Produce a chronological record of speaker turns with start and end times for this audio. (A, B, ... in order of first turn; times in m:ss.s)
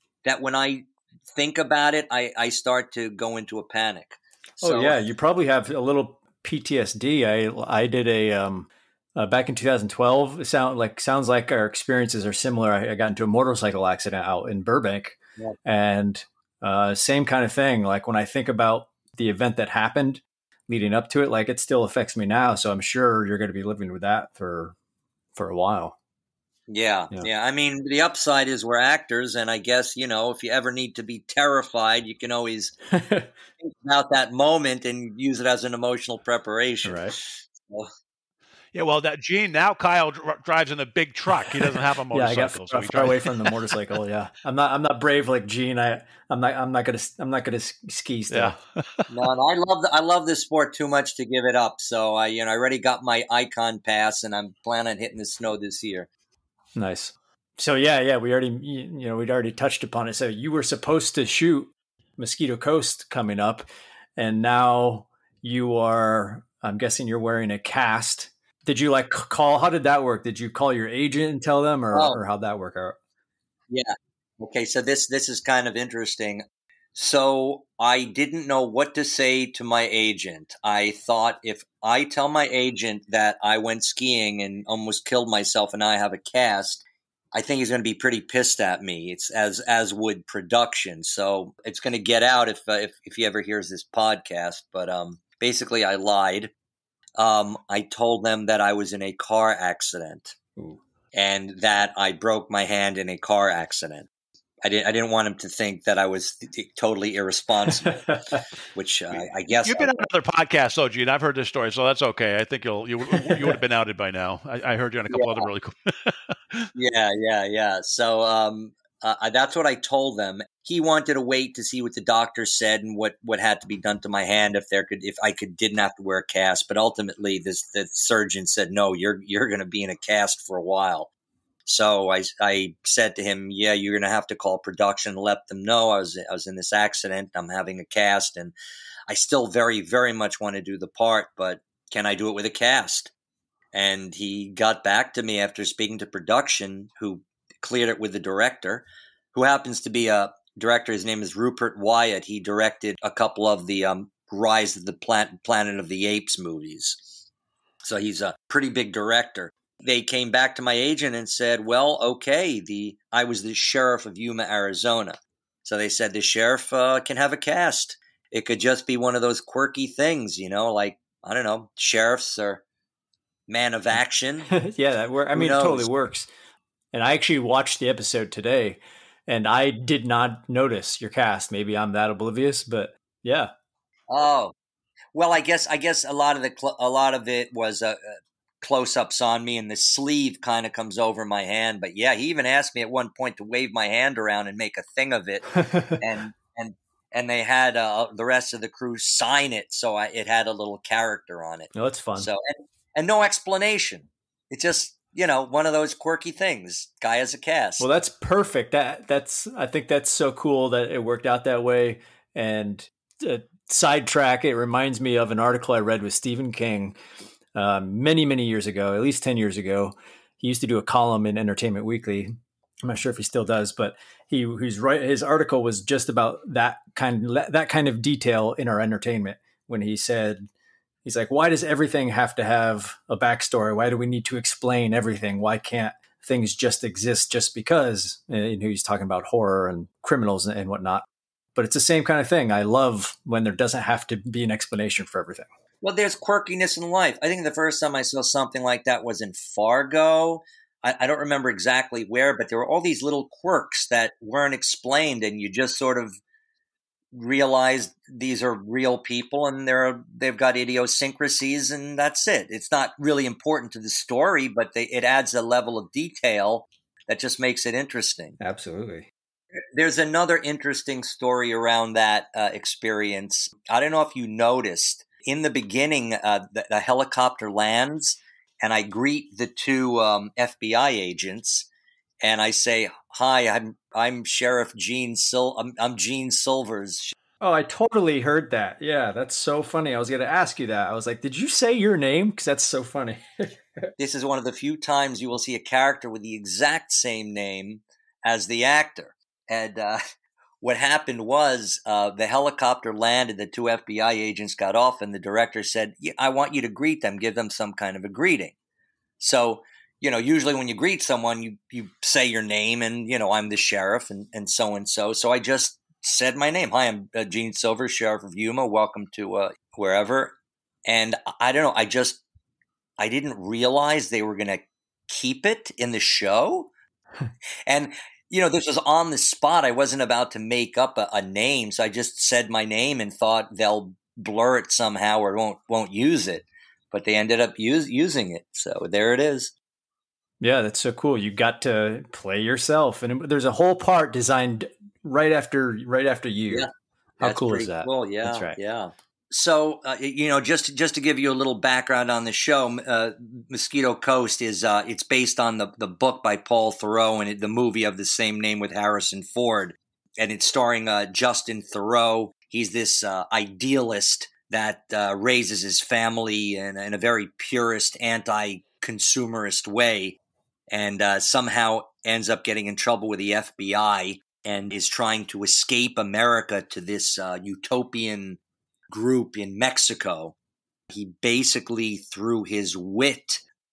0:00.2-0:05.0 A
0:04.6-0:24.7 B
0:25.4-0:26.0 B
0:26.7-0:32.7 A
0:32.9-0:33.3 B
0:33.6-0:37.9 A
0:36.8-0:37.2 B
0:38.7-0:43.6 C
0:42.1-0:48.5 B
0:48.3-0:49.0 C
0:49.1-0:56.1 A
0:56.7-1:03.6 B
1:04.2-1:13.0 B
1:11.9-1:12.2 A
1:13.7-1:16.4 A
1:16.9-1:36.5 A
1:37.2-1:40.4 A
1:41.1-1:44.1 A
1:44.6-1:48.0 A
1:47.8-1:48.4 B
1:48.7-1:49.9 A
1:49.1-1:56.7 C
1:55.1-1:55.5 A
1:56.7-2:11.1 A
2:11.6-2:18.5 A
2:19.1-2:23.1 A
2:23.7-2:37.1 A
2:37.8-2:52.6 A
2:53.5-2:54.5 A
2:54.5-2:56.3 B
2:55.3-2:55.9 A
2:56.9-3:03.5 B
3:04.1-3:04.5 A
3:05.1-3:27.9 A
3:15.6-3:16.0 B
3:21.7-3:22.3 B
3:27.8-3:37.0 B
3:37.5-3:50.5 B
3:51.0-4:05.5 B
4:05.8-4:16.2 A
4:17.1-4:28.4 A
4:28.4-4:29.1 B
4:29.7-4:41.7 A
4:42.2-4:47.1 A
4:47.4-4:53.9 B
4:54.0-5:00.0 A
5:00.6-5:08.5 A
5:09.2-5:20.3 A
5:20.9-5:22.2 A
5:23.0-5:26.7 A
5:27.7-5:39.5 A
5:40.4-5:46.7 B
5:47.2-5:48.6 B
5:47.2-6:10.2 A
6:10.7-6:18.4 A
6:18.9-6:20.3 A
6:20.9-6:23.4 A